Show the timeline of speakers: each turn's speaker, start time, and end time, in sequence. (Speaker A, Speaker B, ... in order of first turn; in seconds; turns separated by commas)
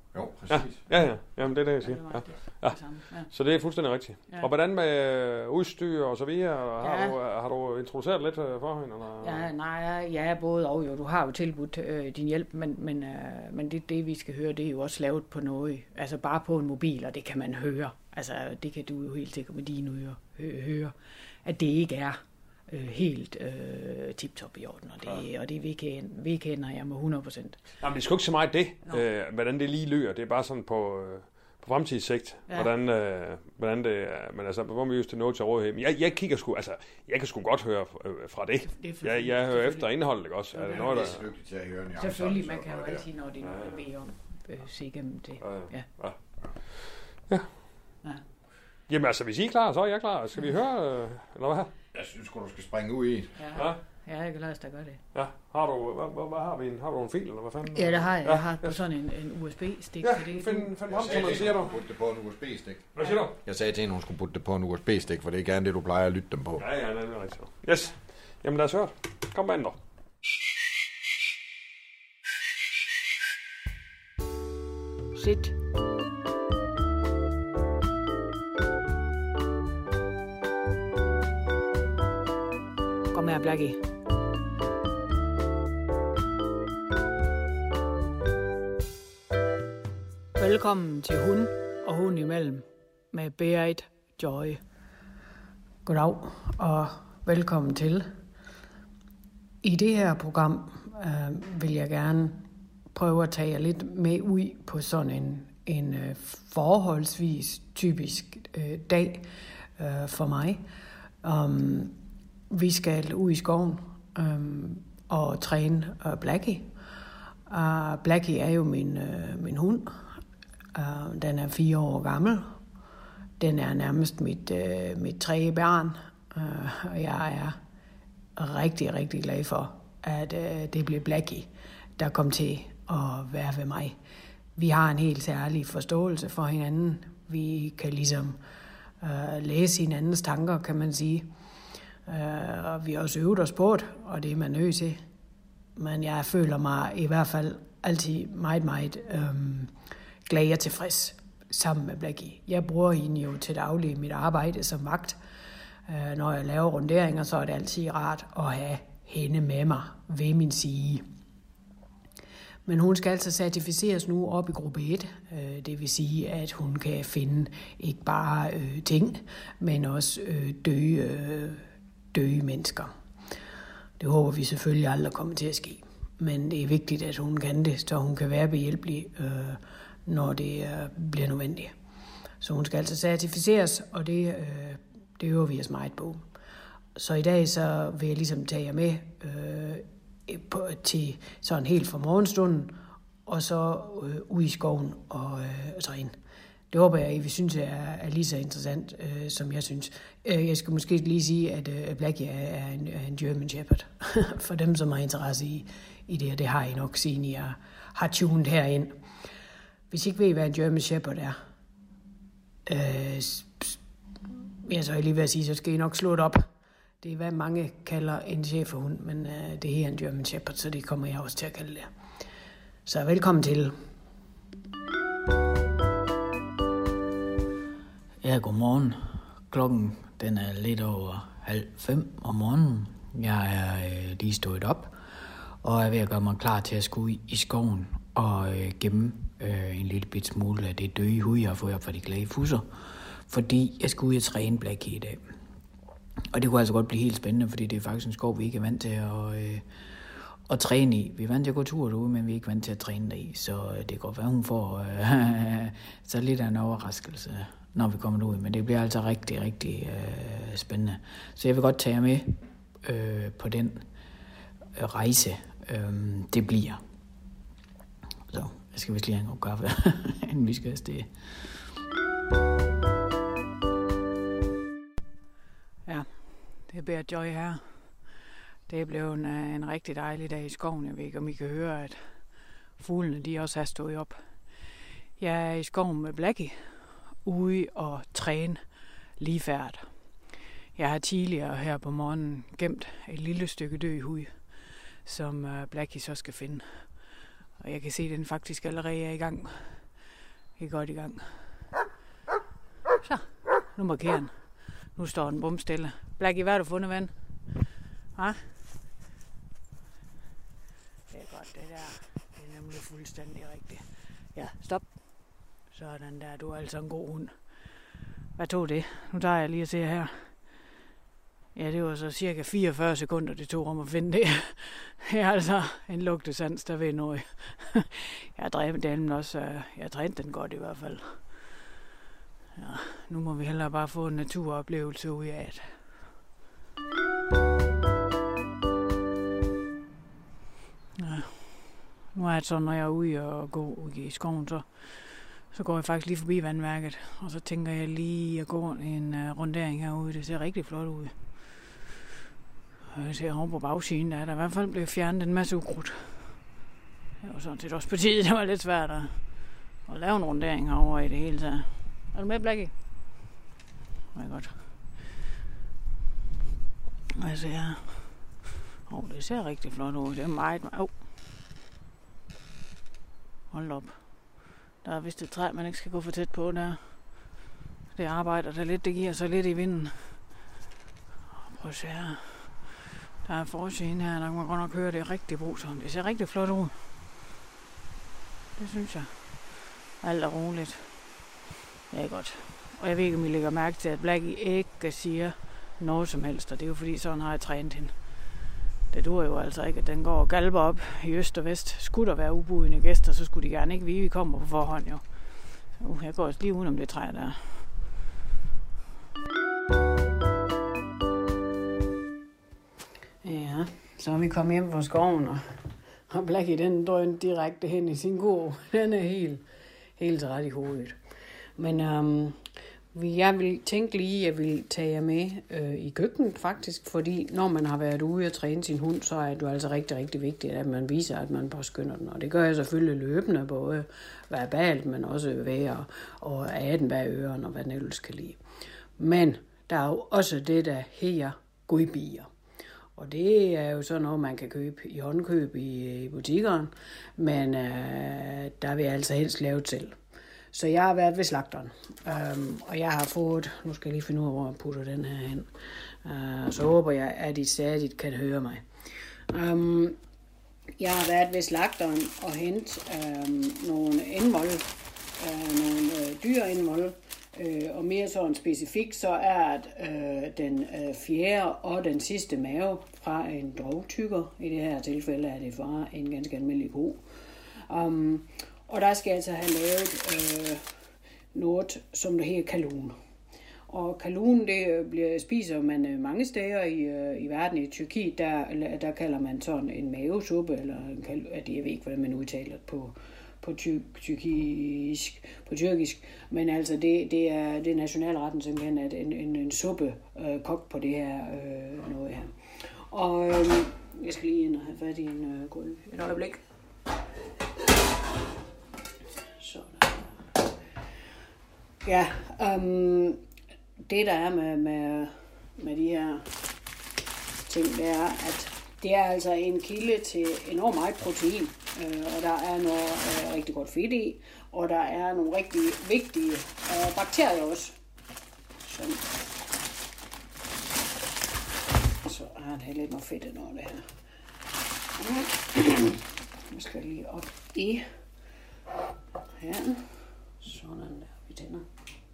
Speaker A: 0.1-0.9, Speaker B: 0.5-9.5, Speaker C: 1.4-3.3, Speaker C: 6.8-7.2, Speaker C: 9.2-27.6, Speaker B: 27.8-41.2, Speaker C: 32.5-32.7, Speaker C: 38.6-41.1, Speaker A: 40.7-43.1, Speaker C: 41.9-46.0, Speaker B: 43.4-43.8, Speaker B: 45.4-47.6, Speaker B: 48.9-51.7, Speaker A: 51.9-53.3, Speaker C: 53.3-55.0, Speaker B: 53.5-53.8, Speaker B: 55.1-58.8, Speaker C: 57.7-60.8, Speaker B: 60.0-61.7, Speaker A: 60.9-66.6, Speaker B: 62.9-63.4, Speaker C: 63.0-63.3, Speaker B: 66.6-69.8, Speaker C: 75.1-75.5, Speaker C: 83.1-83.8, Speaker C: 90.3-94.6, Speaker C: 95.8-98.1, Speaker C: 99.6-109.2, Speaker C: 109.8-110.6, Speaker C: 111.2-112.0, Speaker C: 112.5-116.7, Speaker C: 117.5-120.2, Speaker C: 120.7-122.6, Speaker C: 123.4-127.6, Speaker C: 128.3-133.9, Speaker C: 134.6-138.4, Speaker C: 139.0-141.3, Speaker C: 142.1-145.0, Speaker C: 145.8-149.7, Speaker C: 150.2-155.2, Speaker C: 155.9-161.0, Speaker C: 162.6-171.6, Speaker C: 172.1-172.9, Speaker C: 174.0-181.7, Speaker C: 182.4-186.2, Speaker C: 186.9-196.2, Speaker C: 196.7-209.0, Speaker C: 209.9-211.4, Speaker C: 212.7-213.8, Speaker C: 214.6-216.5, Speaker C: 217.0-221.9, Speaker C: 222.8-223.8, Speaker D: 228.2-245.3, Speaker D: 246.3-249.7, Speaker D: 250.4-263.9, Speaker D: 264.7-266.8, Speaker D: 268.3-271.5, Speaker C: 275.9-278.1, Speaker C: 278.7-284.6, Speaker C: 285.2-290.2, Speaker C: 290.7-300.0, Speaker C: 300.6-301.6, Speaker C: 303.0-307.6, Speaker C: 308.1-308.6, Speaker C: 311.1-317.6, Speaker C: 318.4-320.6, Speaker C: 321.5-331.5, Speaker C: 332.6-335.9, Speaker C: 341.0-351.5, Speaker C: 352.9-356.5, Speaker C: 357.2-362.7, Speaker C: 364.1-364.9, Speaker C: 367.1-371.0, Speaker C: 373.5-377.3, Speaker C: 377.9-380.3, Speaker C: 381.5-382.7, Speaker C: 383.2-386.9, Speaker C: 388.6-391.1, Speaker C: 391.9-398.2, Speaker C: 398.9-407.7, Speaker C: 413.2-419.4, Speaker C: 420.0-421.0, Speaker C: 421.6-422.4, Speaker C: 422.9-438.4, Speaker C: 439.0-442.3, Speaker C: 442.9-450.0, Speaker C: 450.5-455.5, Speaker C: 456.0-458.6, Speaker C: 459.3-460.0, Speaker C: 460.8-480.6, Speaker C: 481.3-482.9, Speaker C: 483.7-506.4, Speaker C: 509.4-510.2, Speaker C: 511.8-513.2, Speaker C: 513.8-516.4, Speaker C: 517.5-527.8, Speaker C: 528.6-529.1, Speaker C: 532.0-533.9, Speaker C: 535.0-536.0, Speaker C: 536.5-537.9, Speaker C: 539.4-541.6